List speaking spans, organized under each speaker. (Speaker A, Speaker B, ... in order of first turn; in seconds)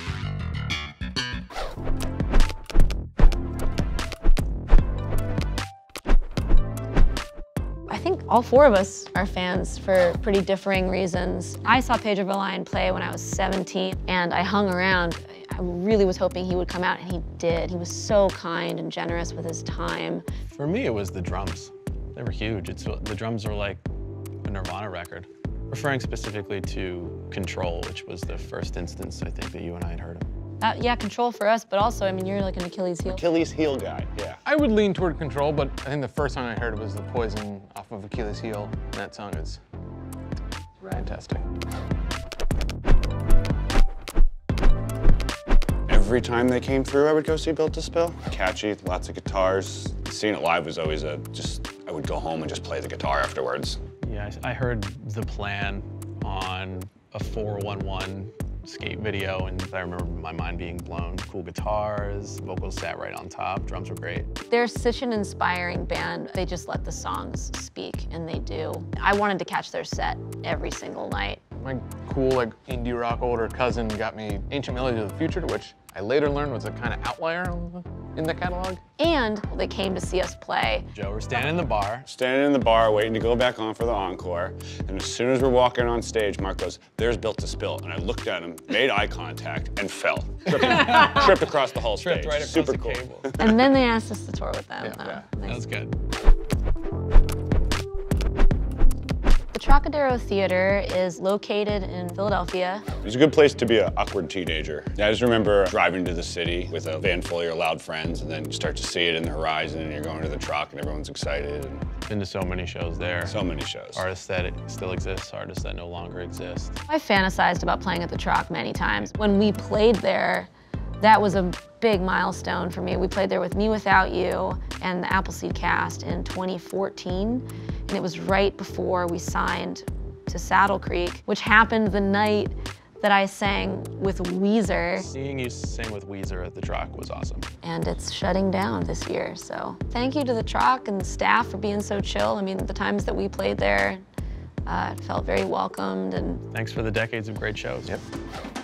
Speaker A: 7.9-20.2, 30.6-33.2, 64.5-71.4, 79.0-80.9, 93.4-95.6, 99.5-102.8, 116.9-120.5, 121.0-135.1, 137.6-144.0, 144.7-146.4
Speaker B: 20.5-23.8, 24.4-30.3, 54.0-64.3, 80.9-82.1, 90.5-93.4, 95.5-95.9, 112.1-113.4, 113.9-116.8, 135.0-137.5, 146.5-148.0
Speaker C: 33.0-34.4, 45.9-53.8, 82.1-93.5, 103.0-111.8, 113.2-114.0
Speaker D: 34.5-39.6, 40.8-41.5, 71.6-78.8, 94.8-95.2